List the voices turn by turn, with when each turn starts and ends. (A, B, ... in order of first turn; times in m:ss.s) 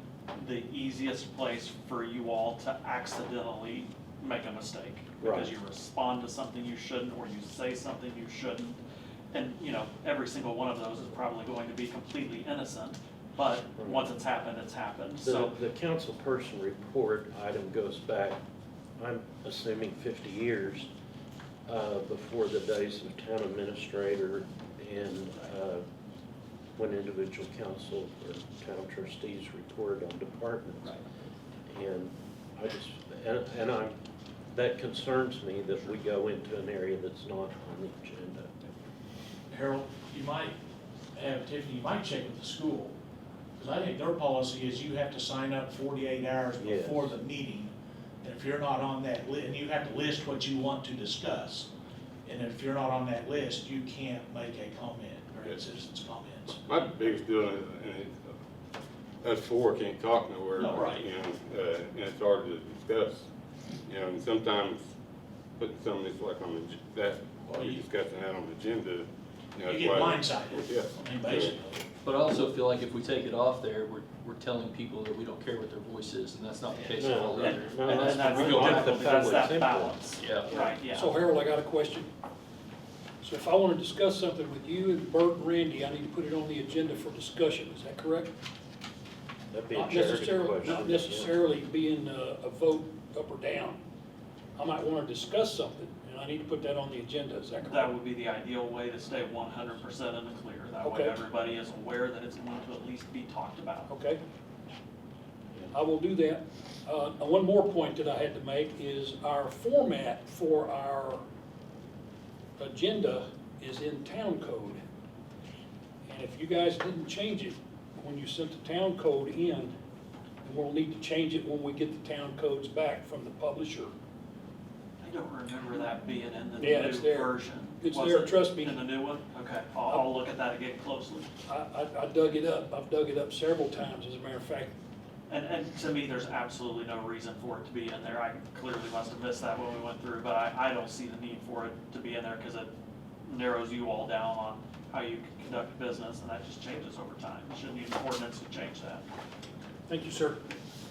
0:00.3-0:08.8 A
0:05.2-0:05.5 B
0:09.3-0:15.5 A
0:13.8-0:14.1 B
0:15.2-0:18.4 B
0:19.0-0:20.9 B
0:21.6-0:25.8 B
0:26.8-0:31.0 B
0:31.7-0:34.0 B
0:34.5-0:38.7 B
0:39.5-0:40.6 C
0:41.1-0:42.9 C
0:43.6-0:51.7 C
0:46.6-0:47.1 B
0:52.2-0:56.6 C
0:56.7-0:58.3 D
0:59.2-1:03.3 D
1:00.6-1:01.1 C
1:03.8-1:04.9 D
1:05.6-1:11.5 D
1:07.4-1:07.8 C
1:09.6-1:11.8 C
1:12.0-1:19.3 E
1:17.0-1:20.8 B
1:17.3-1:21.1 A
1:18.3-1:18.6 D
1:20.2-1:20.5 E
1:20.9-1:22.1 F
1:23.2-1:28.3 F
1:29.5-1:31.3 B
1:29.7-1:33.8 F
1:34.6-1:37.9 F
1:37.6-1:43.9 A
1:40.8-1:41.2 F
1:43.9-1:44.2 F
1:45.7-1:51.2 F
1:52.6-1:54.8 F
1:56.1-1:59.7 F
2:00.4-2:03.9 F
2:05.0-2:11.2 A
2:06.6-2:08.8 F
2:11.5-2:14.7 F
2:15.3-2:22.7 A
2:23.2-2:29.1 A
2:29.9-2:30.4 F